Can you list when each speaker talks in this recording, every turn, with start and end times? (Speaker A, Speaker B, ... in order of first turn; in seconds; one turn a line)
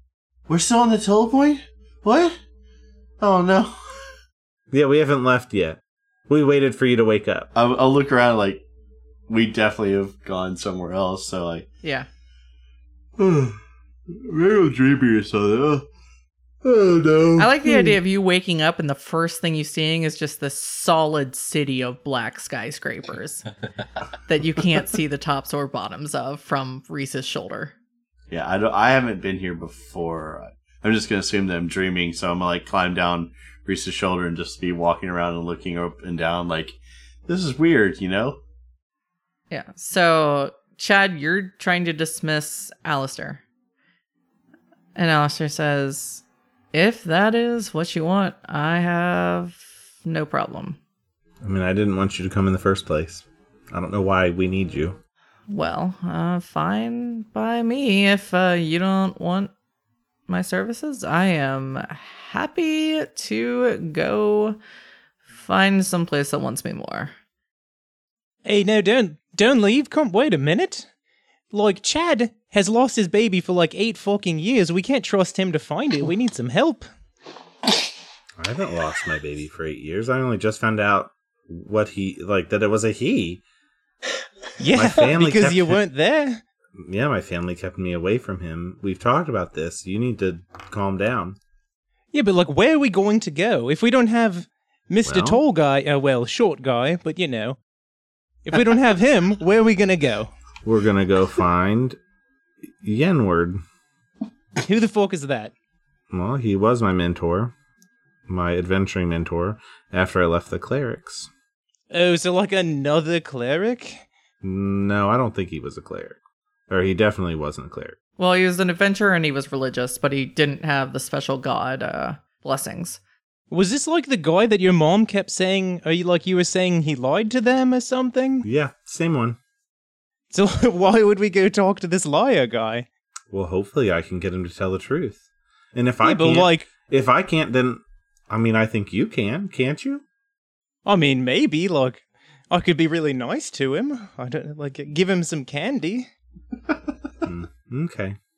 Speaker A: 0.5-2.4
Speaker A: 3.2-3.8
Speaker B: 4.7-7.5
Speaker A: 7.5-8.6
Speaker A: 9.3-11.7
Speaker A: 13.2-13.6
Speaker A: 14.1-15.8
Speaker A: 16.6-17.9
Speaker C: 17.4-23.5
Speaker C: 24.2-27.7
Speaker A: 28.3-38.4
Speaker C: 39.5-43.4
Speaker C: 44.9-50.8
Speaker B: 51.4-55.0
Speaker C: 55.5-59.5
Speaker C: 60.3-64.6
Speaker C: 65.3-67.1
Speaker D: 68.4-70.9
Speaker D: 71.5-76.8
Speaker B: 78.4-83.4
Speaker D: 84.6-86.4
Speaker B: 84.7-85.8
Speaker B: 86.8-91.4
Speaker D: 92.1-97.6
Speaker B: 95.0-95.4
Speaker D: 98.5-100.3
Speaker B: 100.6-102.0
Speaker B: 102.8-103.6
Speaker D: 104.6-105.5
Speaker B: 106.1-107.5
Speaker B: 108.3-111.3
Speaker D: 111.9-114.0
Speaker B: 114.4-116.2
Speaker B: 116.7-118.0
Speaker C: 118.2-123.0
Speaker D: 123.5-128.4
Speaker B: 128.4-129.4
Speaker D: 130.3-132.9
Speaker B: 133.3-135.2
Speaker B: 135.7-140.0
Speaker D: 136.0-136.7
Speaker D: 140.8-146.1
Speaker B: 147.2-148.2